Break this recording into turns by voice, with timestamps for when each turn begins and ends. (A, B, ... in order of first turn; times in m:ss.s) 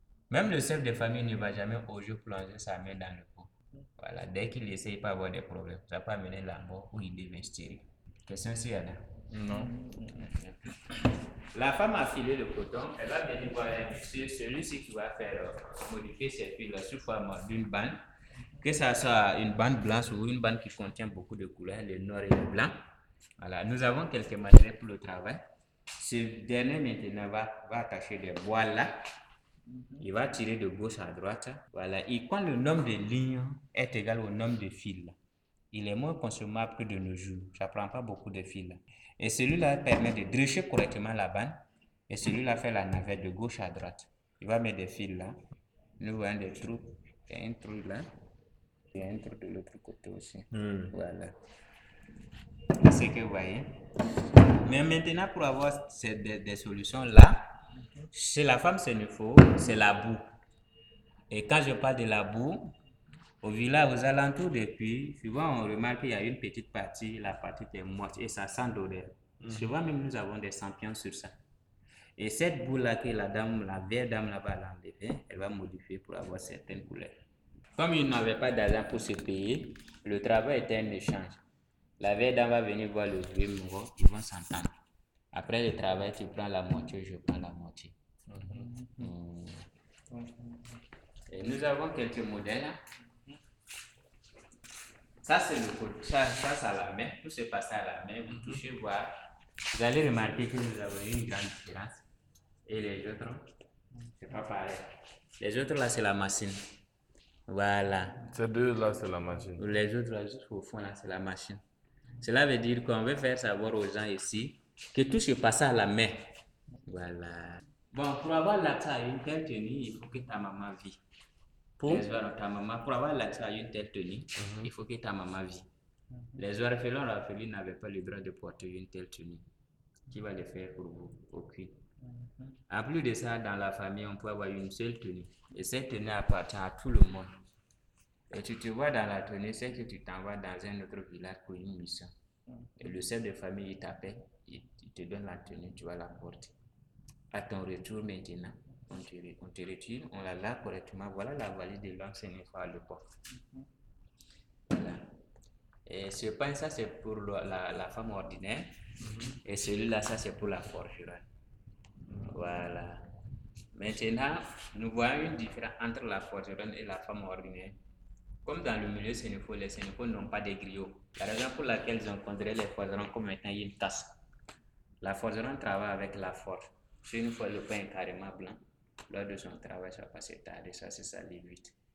0:00.3-0:09.0 A
0:09.3-0:09.8 B
0:10.0-0:18.0 A
0:18.6-0:22.8 A
0:23.4-0:25.4 A
0:25.9-0:29.0 A
0:30.0-0:35.2 A
0:35.7-0:45.4 A
0:46.0-0:48.1 A
0:48.9-0:51.4 A
0:50.5-0:50.9 B
0:52.8-0:53.7 A
0:54.6-0:57.5 A
0:58.1-1:00.3 A
1:01.3-1:02.7 A
1:03.4-1:11.3 A
1:12.2-1:17.2 A
1:17.8-1:21.4 A
1:22.0-1:24.7 A
1:25.3-1:27.9 A
1:28.3-1:28.8 B
1:28.9-1:29.7 A
1:31.3-1:32.8 A
1:35.2-1:39.1 A
1:39.7-1:42.0 A
1:42.6-1:43.5 A
1:44.1-1:46.6 A
1:47.5-1:48.2 A
1:48.3-1:49.7 B
1:49.6-1:51.6 A
1:52.2-1:56.3 A
1:56.8-2:01.0 A
2:01.8-2:05.7 A
2:06.3-2:09.4 A
2:10.1-2:11.7 A
2:12.7-2:17.4 A
2:18.3-2:22.1 A
2:22.8-2:26.5 A
2:27.3-2:33.0 A
2:34.7-2:35.0 A
2:35.8-2:38.7 A
2:39.3-2:41.2 A
2:42.2-2:43.1 A
2:43.7-2:47.8 A
2:48.4-2:54.2 A
2:55.0-3:01.7 A